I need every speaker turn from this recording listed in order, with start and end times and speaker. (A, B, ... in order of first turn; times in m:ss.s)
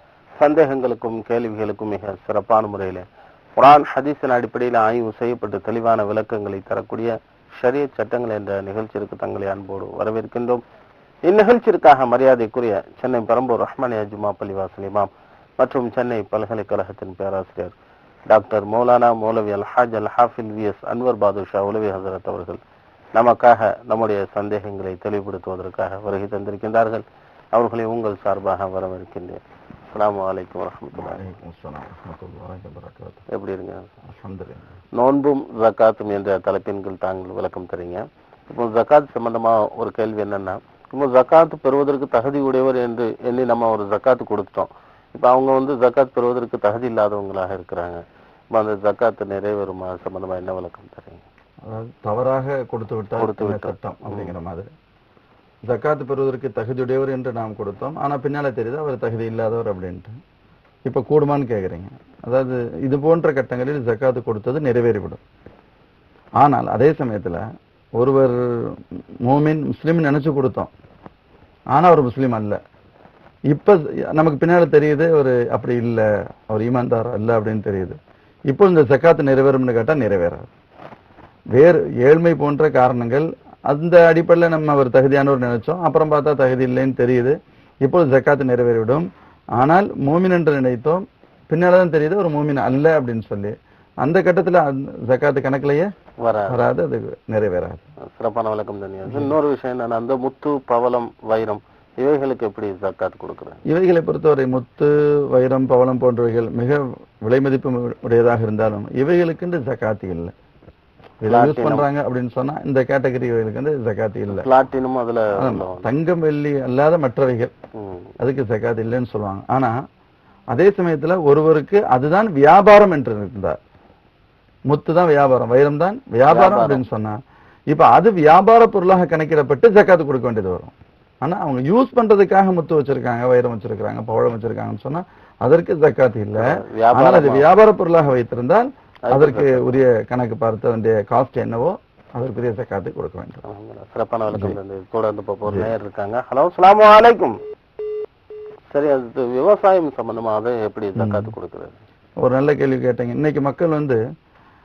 0:00.4-0:03.0 A
0:03.6-0:10.6 A
0:11.2-0:17.7 A
0:18.3-0:22.6 A
0:23.1-0:31.2 A
0:30.9-0:33.2 B
0:33.3-0:33.9 A
0:34.0-0:34.7 B
0:35.0-0:48.0 A
0:48.5-0:51.2 A
0:51.7-0:54.7 B
0:53.2-0:54.3 A
0:55.7-1:00.1 B
1:00.9-1:05.2 B
1:06.4-1:07.4 B
1:08.0-1:10.7 B
1:11.7-1:12.6 B
1:13.5-1:18.0 B
1:18.5-1:20.5 B
1:21.5-1:29.0 B
1:29.6-1:35.9 B
1:36.2-1:36.7 A
1:36.5-1:37.8 B
1:38.1-1:43.6 A
1:39.1-1:39.3 B
1:43.7-1:50.3 B
1:51.2-1:54.5 B
1:51.2-1:51.9 A
1:54.3-1:55.8 A
1:55.3-1:57.5 B
1:57.8-1:58.1 A
1:58.2-1:59.7 B
2:00.5-2:03.6 B
2:04.7-2:07.2 B
2:06.3-2:06.8 A
2:07.7-2:10.7 B
2:11.2-2:23.4 B
2:16.4-2:17.5 A
2:19.0-2:19.8 A
2:23.4-2:27.4 A
2:24.3-2:24.6 B
2:25.4-2:25.7 B
2:28.7-2:31.8 A
2:30.9-2:31.3 B
2:32.2-2:34.0 B